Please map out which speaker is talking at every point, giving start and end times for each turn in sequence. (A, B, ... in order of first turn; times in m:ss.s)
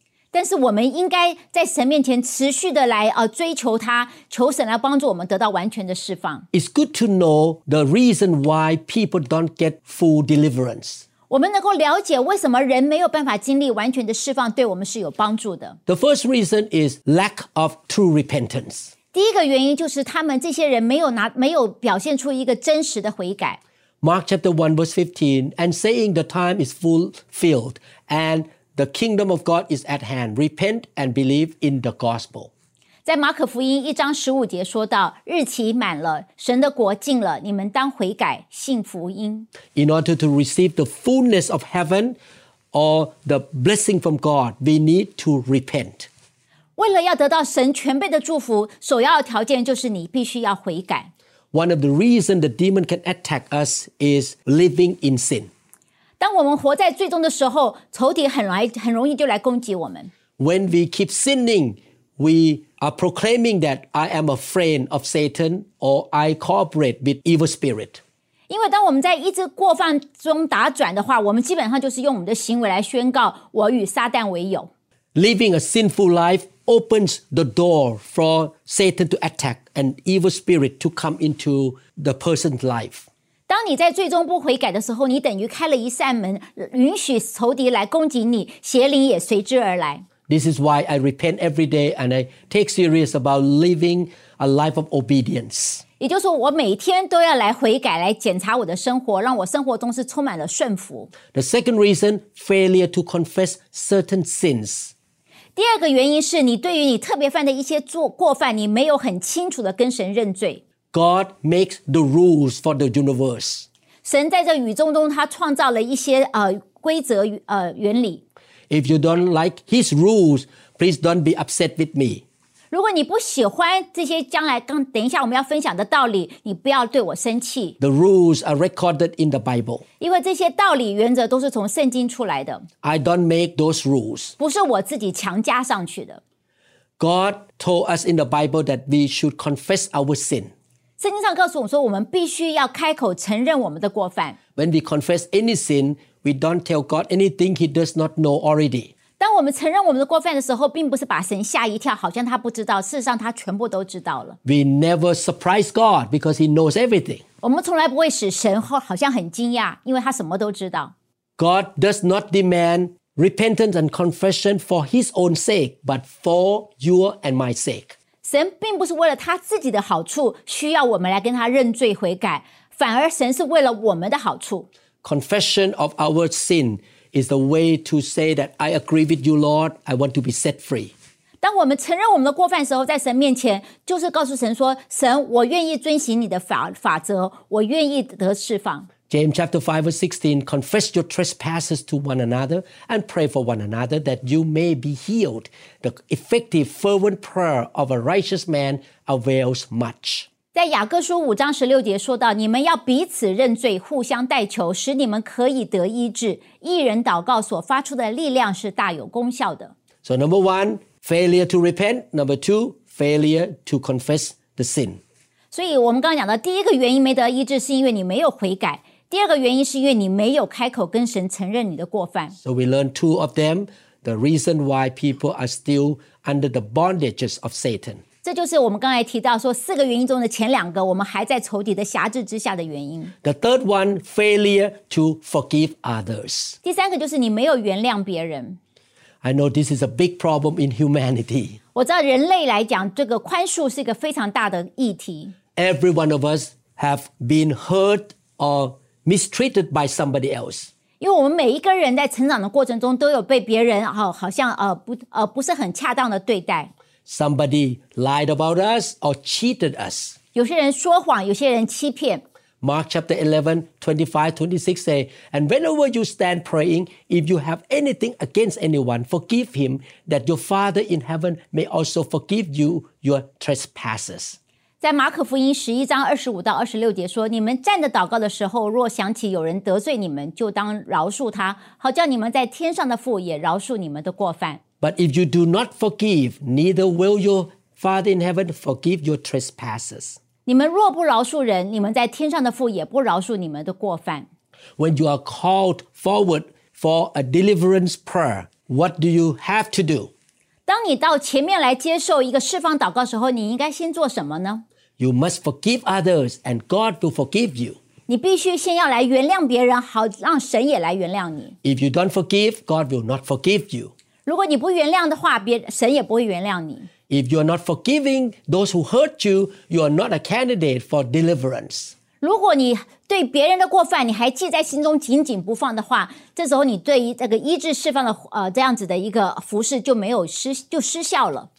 0:00.3-0:06.5 A
0:06.5-0:11.0 B
0:11.3-0:15.8 A
0:15.9-0:18.9 B
0:19.1-0:23.6 A
0:24.0-0:32.5 B
0:33.0-0:39.5 A
0:39.7-0:42.2 B
0:42.7-0:46.1 B
0:46.8-0:51.1 A
0:51.5-0:55.5 B
0:56.2-1:00.1 A
1:00.4-1:08.0 B
1:08.5-1:14.7 A
1:15.2-1:23.1 B
1:23.5-1:30.0 A
1:30.3-1:35.8 B
1:36.0-1:41.1 A
1:41.3-1:44.9 B
1:45.6-1:50.6 A
1:50.9-1:53.7 B
1:54.0-1:58.2 A
1:58.7-2:02.2 B
2:02.7-2:07.8 A
2:07.8-2:09.8 B
2:10.0-2:12.7 A
2:12.8-2:14.4 B
2:14.4-2:16.2 A
2:17.0-2:20.5 B
2:21.0-2:24.4 A
2:24.6-2:28.9 B
2:29.2-2:34.4 A
2:34.4-2:37.2 B
2:37.4-2:40.9 A
2:41.4-2:47.9 B
2:48.2-2:54.7 A
2:55.0-3:00.9 B
3:01.4-3:08.9 A
3:09.1-3:20.3 B
3:20.5-3:29.7 A
3:30.0-3:35.0 B
3:35.5-3:42.4 A
3:42.4-3:48.0 B
3:48.2-3:53.1 A
3:53.2-3:56.6 B
3:56.6-3:58.6 A
3:59.2-4:01.6 B
4:01.8-4:05.3 A
4:05.6-4:10.7 B
4:11.0-4:16.7 A
4:17.1-4:20.2 B
4:20.4-4:22.2 A
4:22.6-4:34.4 B
4:34.8-4:44.6 A
4:44.8-4:50.2 B
4:50.5-4:54.3 A
4:54.8-5:00.1 B
5:00.7-5:04.6 A
5:05.0-5:07.8 B
5:08.1-5:11.5 A
5:11.6-5:13.9 B
5:14.3-5:16.9 A
5:17.1-5:22.0 B
5:22.2-5:31.5 A